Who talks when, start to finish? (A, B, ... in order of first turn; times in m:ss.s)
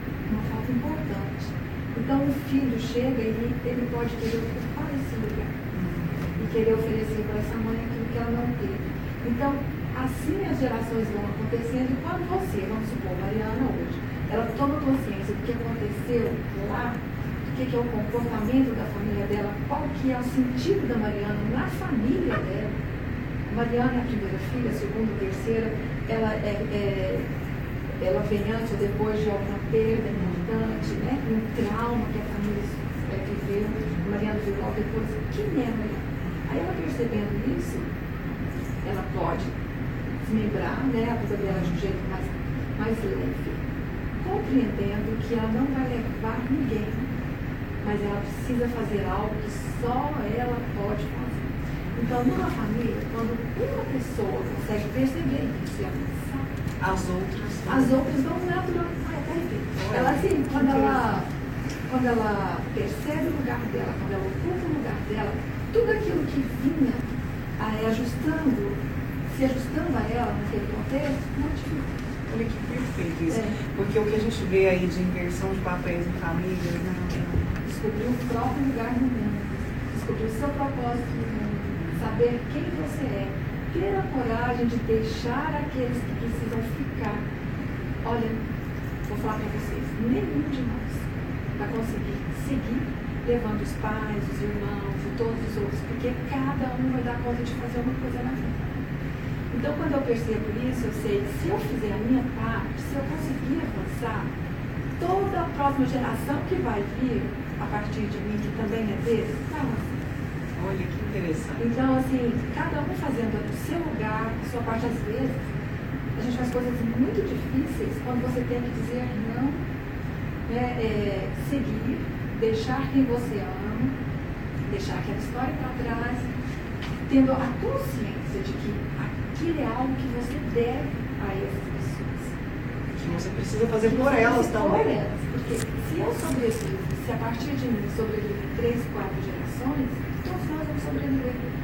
0:00.3-0:05.5 A
0:05.7-0:06.6 B
0:06.4-0:22.7 A
0:23.5-0:27.3 A
0:28.0-0:37.9 A
0:30.1-0:30.8 B
0:38.8-0:39.5 A
0:40.2-0:43.6 A
0:41.4-0:41.8 B
0:44.2-0:47.1 A
0:47.8-0:56.4 A
0:56.8-0:58.0 B
0:57.7-1:01.3 A
0:59.8-1:01.2 B
1:01.9-1:07.0 A
1:07.6-1:08.8 A
1:09.3-1:11.9 A
1:12.3-1:17.6 B
1:13.3-1:13.6 A
1:17.6-1:27.2 A
1:21.7-1:22.0 B
1:28.0-1:28.4 A
1:29.0-1:38.7 A
1:39.5-1:44.3 A
1:45.0-1:49.8 A
1:50.6-1:51.6 B
1:51.6-1:55.4 A
1:56.2-1:59.6 A
2:00.5-2:03.9 A
2:04.6-2:06.2 A
2:07.1-2:12.3 A
2:13.0-2:14.9 B
2:13.8-2:21.4 A